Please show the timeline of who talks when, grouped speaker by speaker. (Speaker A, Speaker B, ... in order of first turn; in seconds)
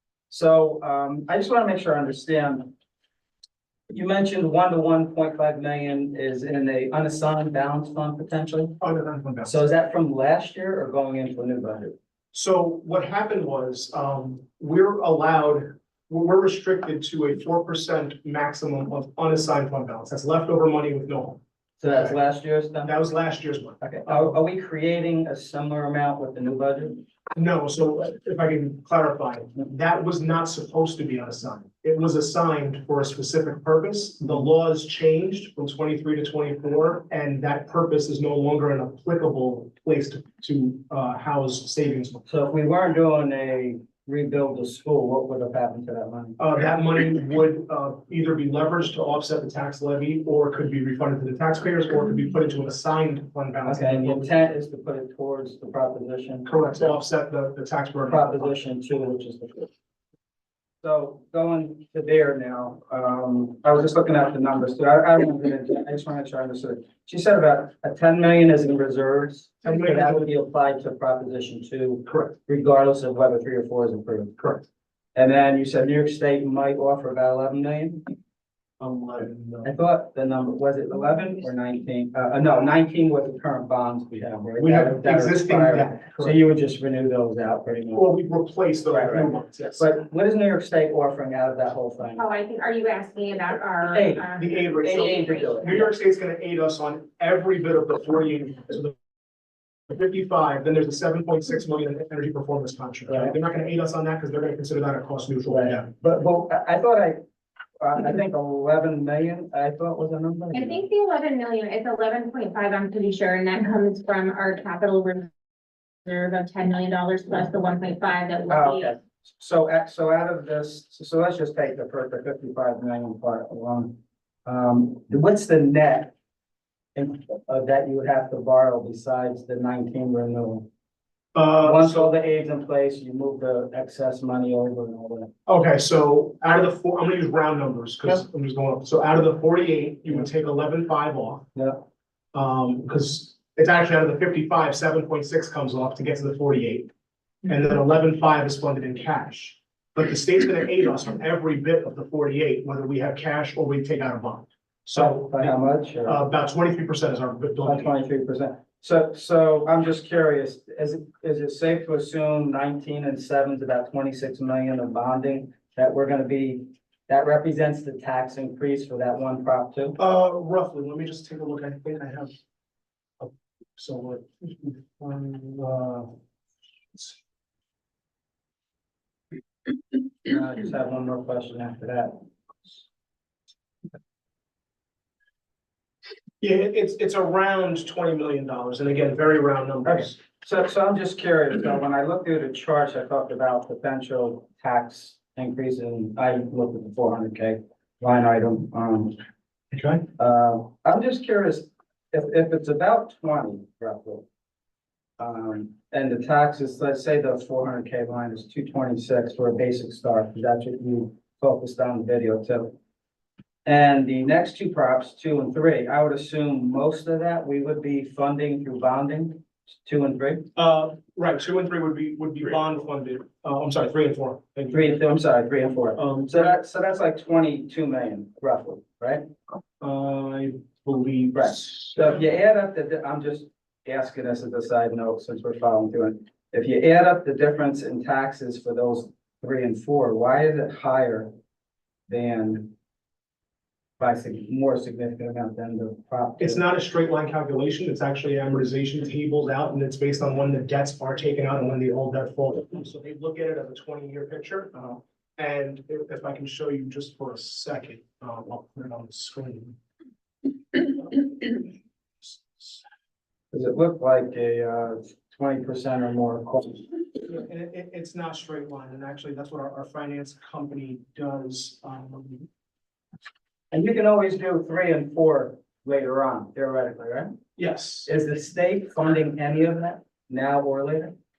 Speaker A: 0.3-2.7, 3.9-8.8, 9.4-11.9, 21.8-22.9, 23.8-27.0, 42.3-46.4, 53.6-56.5, 58.1-59.7, 60.8-74.3, 75.1-78.0, 79.6-88.1, 88.9-92.2, 93.9-94.3, 94.8-95.9, 103.1-103.3, 105.5-107.2, 107.8-110.8, 118.5-126.1, 126.9-130.7, 131.6-135.3, 141.5-141.8, 154.9-156.2, 157.6-170.0, 180.2-182.2, 189.8-199.2, 200.2-204.2, 205.2-212.8, 213.6-220.5, 224.7-229.2, 231.3-241.3, 242.1-242.7, 244.0-246.6, 263.5-266.9, 273.7-277.3, 278.1-281.1
Speaker B: 8.8-9.7, 12.3-22.2, 22.8-24.4, 27.3-42.2, 46.4-54.5, 56.4-58.5, 69.6-70.3, 72.0-72.3, 74.4-74.7, 78.8-79.7, 84.6-86.4, 87.9-89.9, 94.4-98.9, 99.9-105.9, 131.3-132.1, 135.4-141.5, 142.3-146.9, 147.5-157.9, 170.0-172.3, 173.2-176.1, 186.4-190.2, 199.7-200.1, 220.5-224.9, 225.9-226.4, 229.8-232.2, 246.4-259.8, 261.0-261.6, 262.2-262.8, 267.2-272.5, 277.6-278.1
Speaker C: 92.2-95.7, 110.5-115.3, 116.0-118.9